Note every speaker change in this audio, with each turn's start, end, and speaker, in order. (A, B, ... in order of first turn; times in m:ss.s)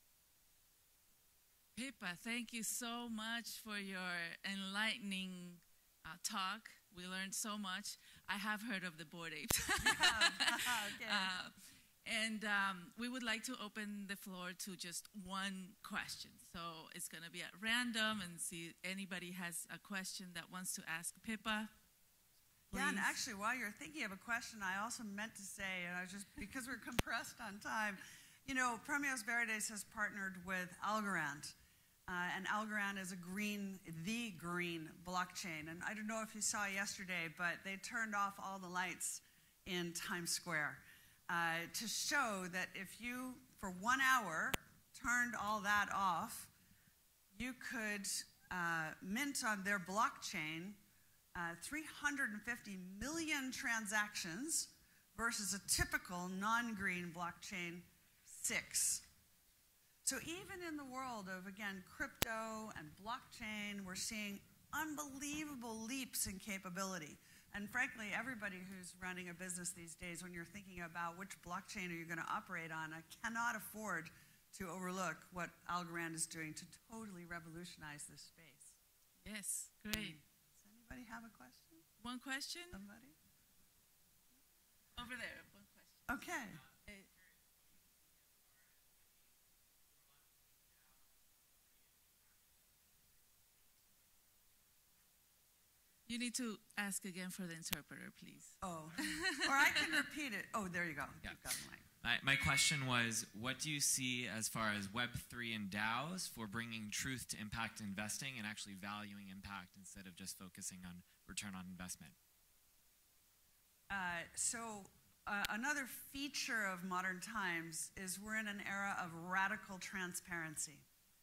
0:01.7-0:21.7 A
0:09.8-0:11.3 B
0:22.7-0:23.2 A
0:22.7-0:31.5 B
0:32.1-0:46.5 B
0:47.3-0:50.8 B
0:51.3-0:59.0 B
1:00.0-1:18.8 B
1:19.2-1:20.2 A
1:19.9-1:21.8 B
1:22.0-1:22.8 A
1:22.7-1:23.1 B
1:25.0-1:26.0 A
1:26.1-1:26.6 B
1:36.1-1:40.0 A
1:38.6-1:41.8 B
1:42.0-1:52.2 C
1:53.9-2:00.8 B